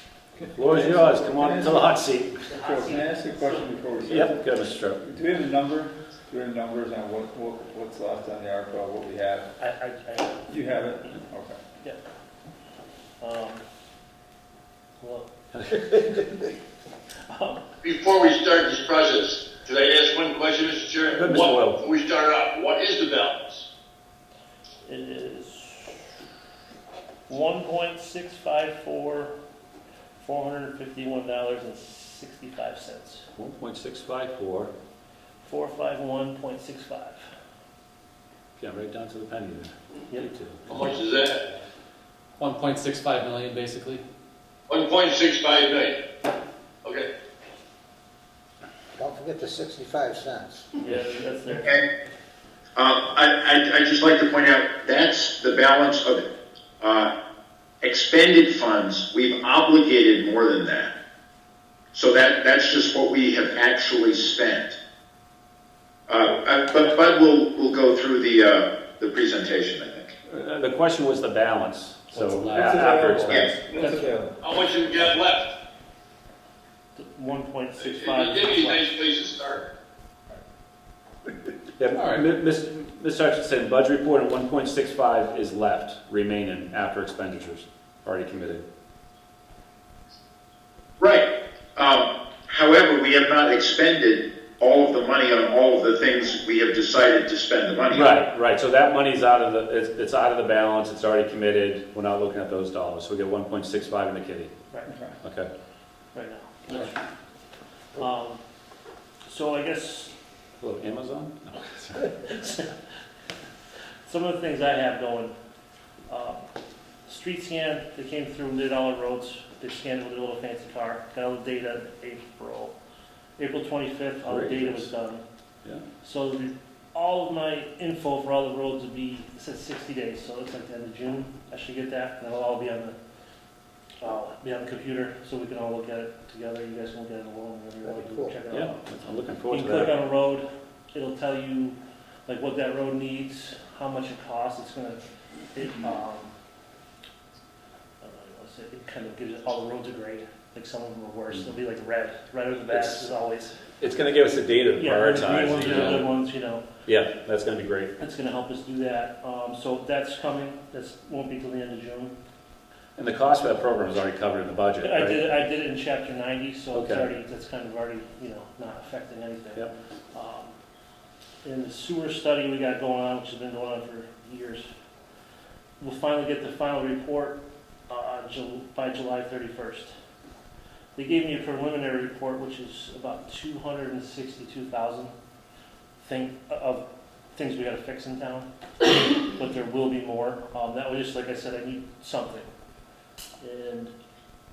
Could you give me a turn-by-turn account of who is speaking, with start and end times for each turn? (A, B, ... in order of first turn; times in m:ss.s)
0:00.4-0:09.5 A
0:00.5-0:02.4 B
0:02.4-0:03.8 C
0:04.1-0:05.0 B
0:09.6-0:10.5 C
0:10.5-0:11.6 A
0:13.2-0:13.6 C
0:15.0-0:15.3 C
0:15.5-0:16.3 B
0:17.3-0:17.6 C
0:17.8-0:23.7 D
0:21.1-0:21.8 B
0:24.8-0:26.0 C
0:27.3-0:29.3 C
0:30.2-0:33.3 C
0:33.4-0:34.7 B
0:35.4-0:37.3 C
0:38.6-0:40.6 B
0:40.7-0:41.5 D
0:42.4-0:44.0 E
0:44.7-0:46.0 D
0:46.8-0:47.1 D
0:49.0-0:50.7 F
0:50.8-0:51.8 C
0:52.8-0:56.3 G
0:56.8-0:57.1 G
0:57.8-1:00.9 G
1:01.9-1:04.8 G
1:06.1-1:10.1 G
1:10.3-1:13.6 B
1:12.1-1:13.4 E
1:12.5-1:15.1 A
1:13.8-1:14.2 C
1:14.4-1:15.5 D
1:17.0-1:18.9 C
1:17.8-1:19.7 D
1:21.8-1:28.6 B
1:21.9-1:22.3 E
1:31.0-1:38.1 G
1:37.9-1:44.5 B
1:44.9-1:45.2 A
1:45.2-1:45.5 B
1:46.1-1:47.0 C
1:48.0-1:48.4 C
1:49.3-1:50.1 C
1:50.6-1:52.2 B
1:52.3-1:52.7 C
1:54.1-1:55.4 C
1:56.1-1:56.5 C
1:57.1-2:02.8 C
2:03.4-2:05.2 C
2:04.2-2:04.9 B
2:06.0-2:13.0 C
2:14.0-2:18.8 C
2:17.8-2:18.3 F
2:18.5-2:19.9 B
2:19.5-2:25.0 C
2:25.5-2:26.3 C
2:28.0-2:33.6 C
2:32.7-2:33.1 B
2:33.8-2:36.1 B
2:34.8-2:36.7 C
2:35.8-2:36.0 E
2:36.9-2:37.9 B
2:38.0-2:42.2 C
2:43.0-2:45.2 B
2:44.8-2:50.6 C
2:46.7-2:47.1 B
2:51.4-2:54.7 C
2:55.8-2:59.9 C
3:01.0-3:05.1 C
3:06.0-3:12.5 C
3:13.4-3:13.9 C